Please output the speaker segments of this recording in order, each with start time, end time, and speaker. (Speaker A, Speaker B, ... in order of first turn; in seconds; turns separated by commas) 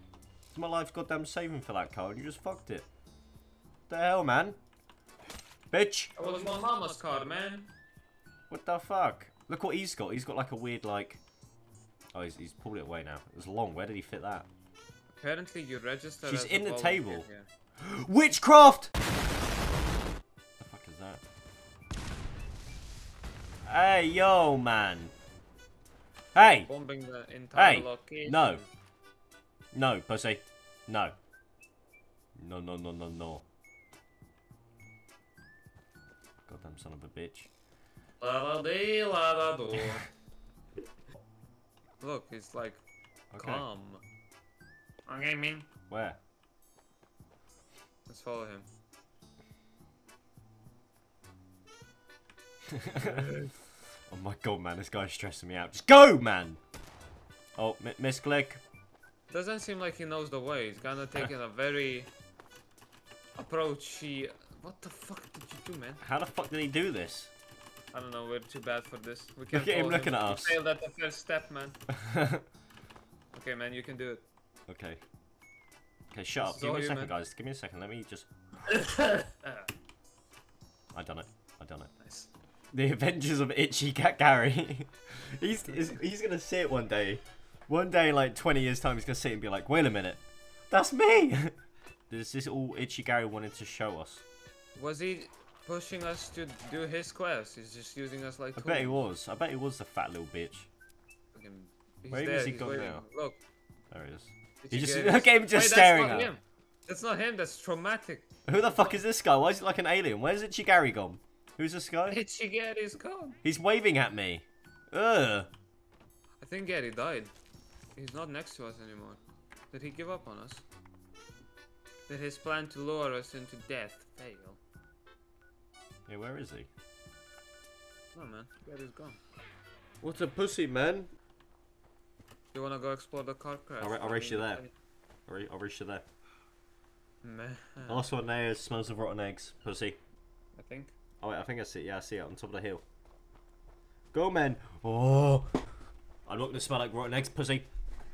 Speaker A: 0.5-2.9, Speaker A: 3.9-4.6, Speaker A: 5.7-6.1, Speaker B: 6.2-7.7, Speaker A: 8.5-11.2, Speaker A: 12.1-14.5, Speaker B: 15.1-17.5, Speaker A: 16.2-17.3, Speaker A: 17.8-18.9, Speaker A: 20.6-21.2, Speaker A: 23.7-25.1, Speaker A: 26.3-26.7, Speaker B: 26.4-28.7, Speaker A: 27.5-28.6, Speaker A: 29.7-31.1, Speaker A: 32.4-33.4, Speaker A: 36.5-37.5, Speaker B: 38.2-40.0, Speaker B: 42.0-42.8, Speaker A: 43.3-43.6, Speaker B: 43.4-44.0, Speaker B: 45.1-45.7, Speaker A: 45.9-46.2, Speaker B: 48.1-48.7, Speaker A: 52.7-53.3, Speaker B: 53.0-53.5, Speaker A: 54.1-56.6, Speaker A: 57.6-58.6, Speaker B: 59.3-62.1, Speaker B: 63.4-66.0, Speaker A: 66.0-67.3, Speaker B: 67.9-71.8, Speaker A: 69.5-70.6, Speaker A: 71.9-72.5, Speaker B: 73.3-74.2, Speaker A: 74.7-75.0, Speaker A: 76.1-78.3, Speaker B: 76.4-77.2, Speaker B: 78.7-79.7, Speaker A: 80.9-81.9, Speaker B: 82.0-82.3, Speaker A: 82.7-91.6, Speaker A: 92.1-94.2, Speaker B: 94.8-99.0, Speaker A: 98.6-100.7, Speaker B: 101.3-103.4, Speaker A: 102.1-103.0, Speaker A: 103.9-106.3, Speaker B: 104.6-109.0, Speaker A: 108.5-112.2, Speaker B: 112.1-113.4, Speaker A: 113.4-115.5, Speaker B: 116.4-117.3, Speaker B: 118.0-120.7, Speaker B: 122.1-124.6, Speaker A: 126.1-126.7, Speaker B: 128.1-129.2, Speaker A: 130.0-131.1, Speaker B: 132.5-134.7, Speaker A: 133.8-134.7, Speaker A: 135.3-136.1, Speaker B: 137.2-138.1, Speaker A: 137.9-140.0, Speaker B: 140.6-141.0, Speaker A: 141.2-142.8, Speaker A: 144.1-145.5, Speaker A: 146.3-147.7